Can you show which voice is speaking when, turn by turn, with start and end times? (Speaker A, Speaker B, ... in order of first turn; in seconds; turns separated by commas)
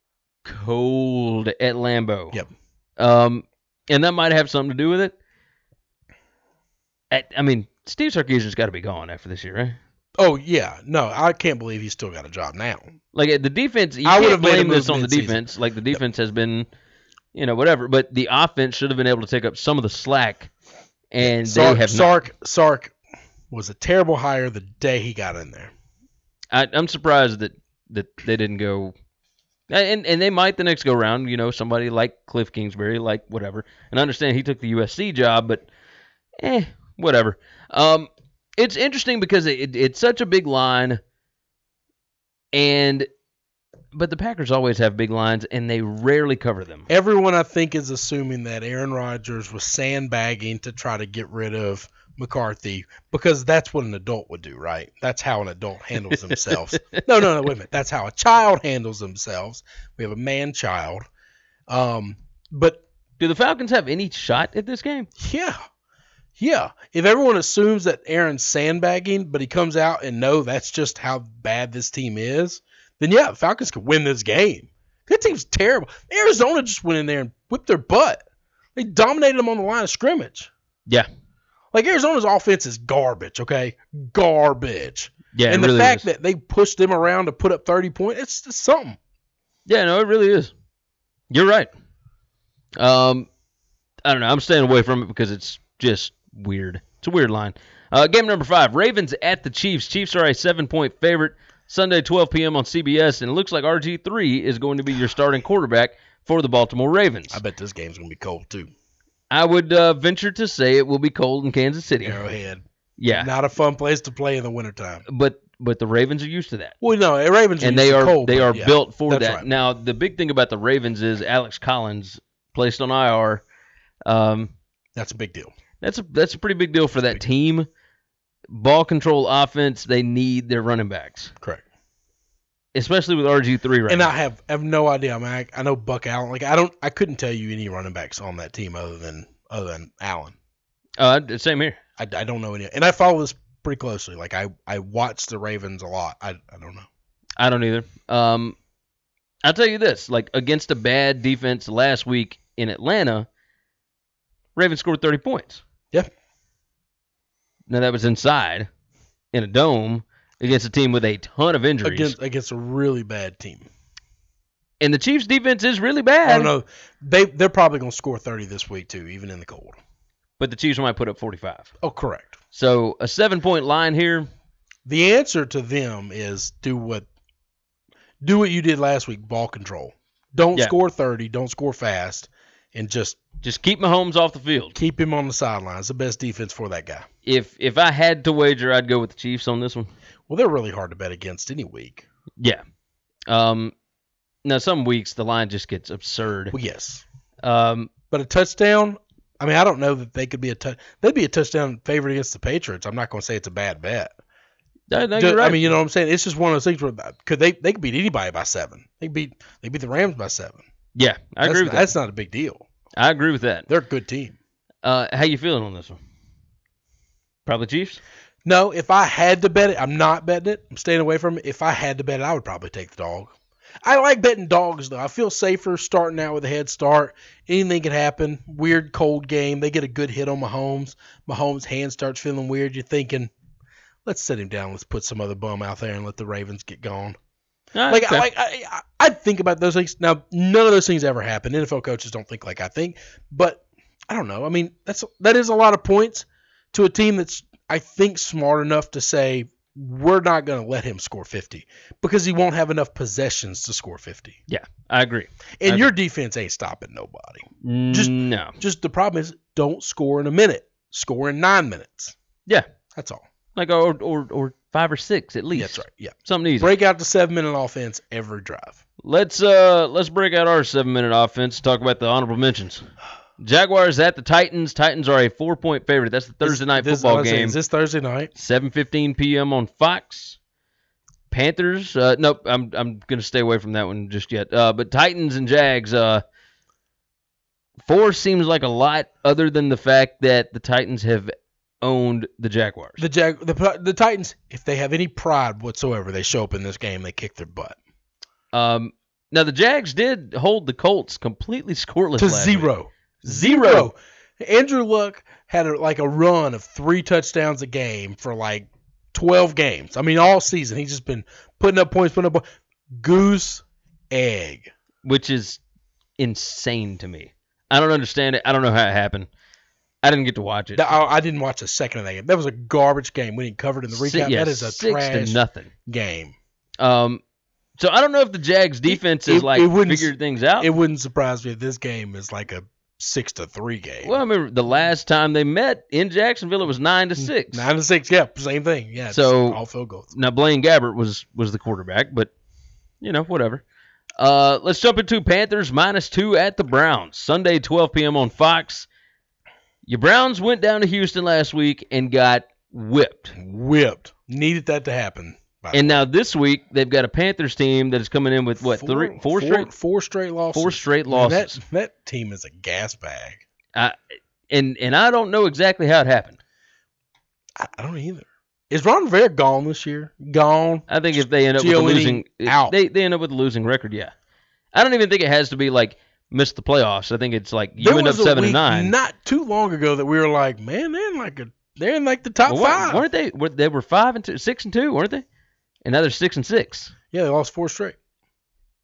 Speaker A: 0.4-2.4, Speaker A: 3.0-5.2, Speaker A: 7.1-9.8, Speaker B: 10.2-12.9, Speaker A: 13.1-16.7, Speaker B: 14.0-15.4, Speaker A: 17.3-20.5, Speaker A: 21.1-22.1, Speaker B: 21.2-22.9, Speaker B: 23.5-25.7, Speaker A: 26.5-28.9, Speaker A: 29.7-35.7, Speaker A: 36.4-41.0, Speaker A: 42.5-43.1, Speaker A: 43.9-46.9, Speaker B: 46.9-61.1, Speaker A: 56.3-57.0, Speaker B: 61.7-62.8, Speaker A: 63.2-65.1, Speaker B: 65.2-65.6, Speaker B: 66.4-78.2, Speaker B: 78.8-80.5, Speaker B: 81.7-89.0, Speaker A: 85.3-86.1, Speaker A: 89.7-90.5, Speaker A: 91.3-91.7, Speaker A: 92.8-93.3, Speaker A: 94.0-107.4, Speaker B: 107.3-108.7, Speaker A: 109.3-112.2, Speaker B: 112.0-115.0, Speaker A: 113.0-113.3, Speaker A: 115.1-116.8, Speaker B: 116.8-119.5, Speaker A: 117.6-123.4, Speaker A: 124.1-124.5, Speaker B: 125.0-125.5, Speaker A: 125.8-127.7, Speaker A: 128.5-131.3, Speaker A: 132.8-134.1, Speaker B: 133.9-140.3, Speaker A: 141.0-141.8, Speaker B: 142.0-146.9, Speaker A: 147.4-148.6, Speaker A: 149.4-153.3, Speaker A: 154.6-155.6, Speaker A: 157.7-158.7, Speaker A: 159.3-162.2, Speaker B: 161.8-163.7, Speaker A: 164.8-166.5, Speaker B: 166.2-169.8, Speaker A: 170.4-171.7, Speaker B: 171.8-172.4, Speaker A: 172.5-174.3, Speaker B: 174.8-177.1, Speaker B: 178.2-183.2, Speaker A: 183.4-184.8, Speaker B: 184.8-187.1, Speaker A: 187.2-189.9, Speaker B: 190.3-192.1, Speaker A: 193.3-193.7, Speaker A: 194.4-196.6, Speaker B: 196.5-197.0, Speaker A: 197.4-197.9, Speaker B: 198.1-204.1, Speaker A: 204.9-205.7, Speaker B: 205.2-210.6, Speaker A: 210.9-211.9, Speaker B: 211.4-212.7, Speaker A: 213.0-213.7, Speaker B: 213.7-214.4, Speaker A: 214.8-216.0, Speaker A: 217.5-218.0, Speaker B: 218.4-233.3, Speaker B: 234.1-237.2, Speaker A: 237.8-238.3, Speaker B: 237.9-254.4, Speaker A: 254.5-255.9, Speaker B: 255.6-262.1, Speaker A: 257.6-258.6, Speaker B: 262.9-263.2, Speaker A: 263.6-266.7, Speaker B: 265.6-268.8, Speaker A: 269.0-272.9, Speaker A: 273.4-277.6, Speaker B: 276.4-278.3, Speaker A: 278.4-280.4, Speaker A: 281.3-286.2, Speaker A: 287.9-293.0, Speaker B: 293.0-297.8, Speaker A: 298.5-302.7, Speaker B: 302.2-312.4, Speaker A: 303.2-303.9, Speaker B: 312.9-314.7, Speaker A: 315.0-315.6, Speaker A: 316.2-319.3, Speaker A: 320.0-320.8, Speaker B: 320.8-326.4, Speaker A: 323.9-325.7, Speaker A: 326.8-327.2, Speaker A: 327.8-330.7, Speaker B: 328.9-334.2, Speaker A: 334.0-337.7, Speaker B: 337.2-340.1, Speaker A: 339.1-339.6, Speaker A: 340.1-342.3, Speaker A: 343.0-343.6, Speaker A: 344.2-348.9, Speaker A: 349.9-353.4, Speaker B: 353.4-356.0, Speaker A: 355.7-359.7, Speaker B: 358.6-363.4, Speaker A: 360.5-361.6, Speaker A: 364.5-366.4, Speaker B: 367.6-372.8, Speaker A: 370.9-374.1, Speaker A: 374.7-378.9, Speaker B: 377.8-383.0, Speaker A: 382.5-385.2, Speaker A: 385.9-386.9, Speaker B: 387.1-388.0